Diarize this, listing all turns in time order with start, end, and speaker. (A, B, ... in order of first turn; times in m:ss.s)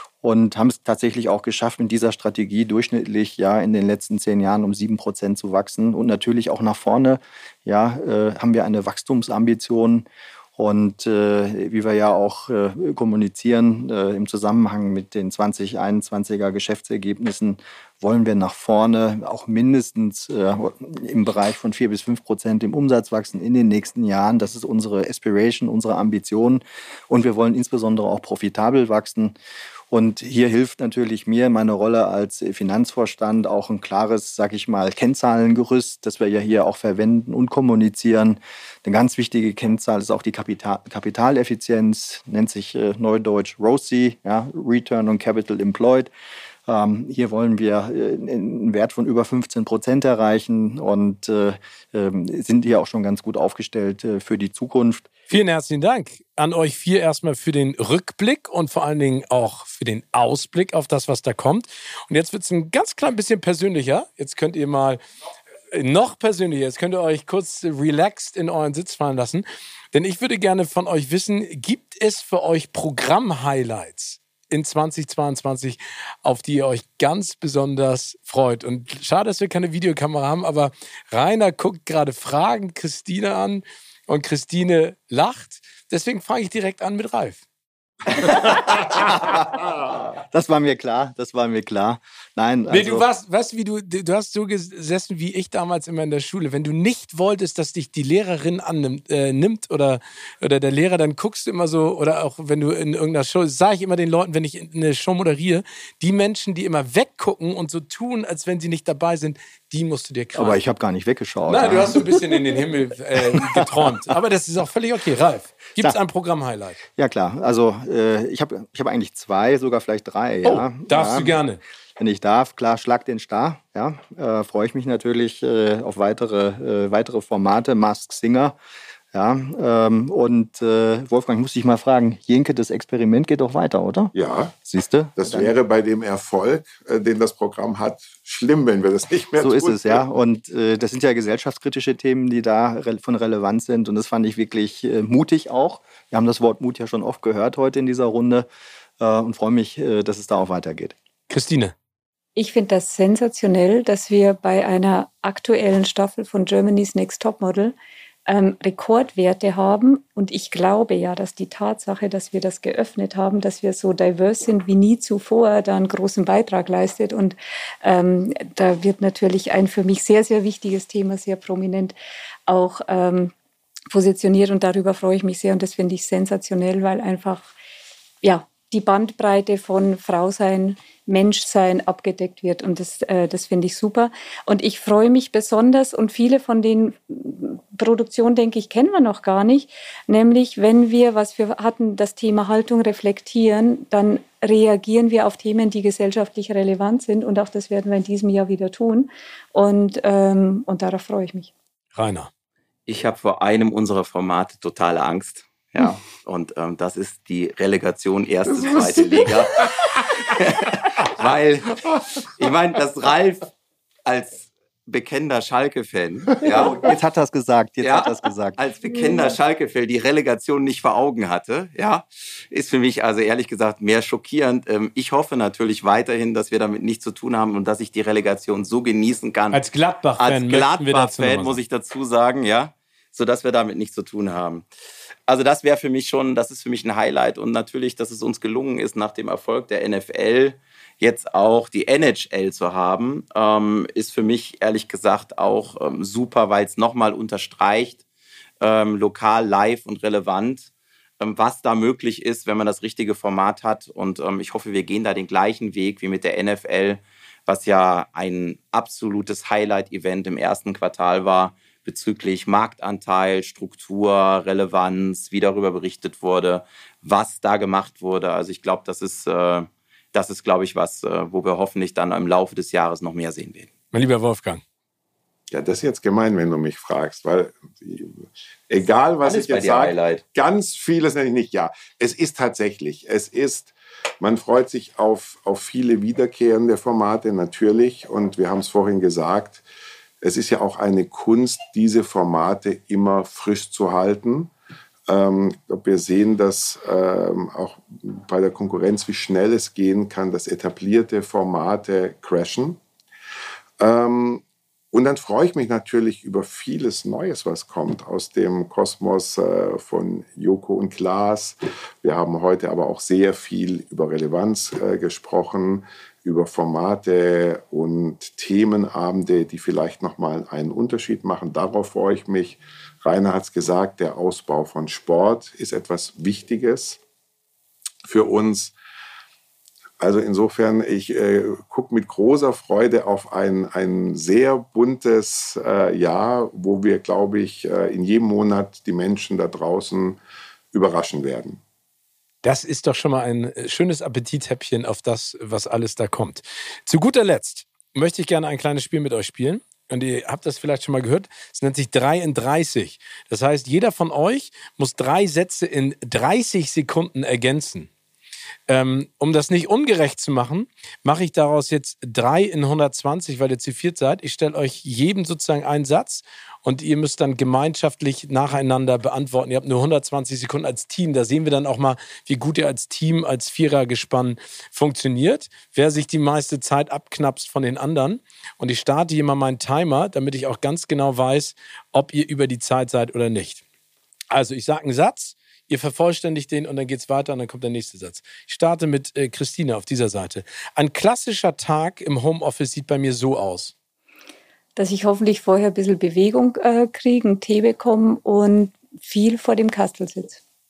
0:00.2-0:10.0 A
0:10.6-0:29.3 A
0:29.9-0:46.1 A
0:46.6-0:55.1 A
0:55.3-1:05.0 B
1:05.7-1:27.4 B
1:28.2-1:29.3 B
1:28.2-1:33.0 A
1:32.7-1:50.6 B
1:50.4-1:52.6 A
1:51.5-1:56.8 B
1:53.2-1:54.1 A
1:56.9-2:01.4 A
2:00.4-2:01.6 B
2:02.0-2:08.6 A
2:09.1-2:14.1 A
2:14.1-2:14.5 C
2:14.6-2:15.5 A
2:15.2-2:20.0 C
2:19.4-2:28.4 A
2:29.0-2:31.0 A
2:31.3-2:31.7 B
2:32.4-2:37.7 D
2:38.3-2:52.0 D
2:52.5-2:53.3 D
2:53.9-2:57.5 D
2:58.2-3:21.5 D
3:21.9-3:22.3 B
3:22.9-3:33.5 E
3:34.0-3:36.9 E
3:36.6-3:38.6 A
3:37.8-3:49.6 E
3:49.5-3:51.6 B
3:50.2-3:54.6 E
3:55.3-4:08.0 E
4:08.6-4:33.7 E
4:33.9-4:34.6 B
4:35.5-4:49.6 C
4:39.2-4:40.2 E
4:50.2-4:54.5 C
4:55.1-5:02.8 C
5:03.8-5:27.0 C
5:28.1-5:28.7 C
5:30.0-5:40.2 C
5:40.7-5:41.6 C
5:42.4-5:57.9 B
5:58.7-6:23.6 B
6:24.3-6:33.7 B
6:34.8-6:40.4 D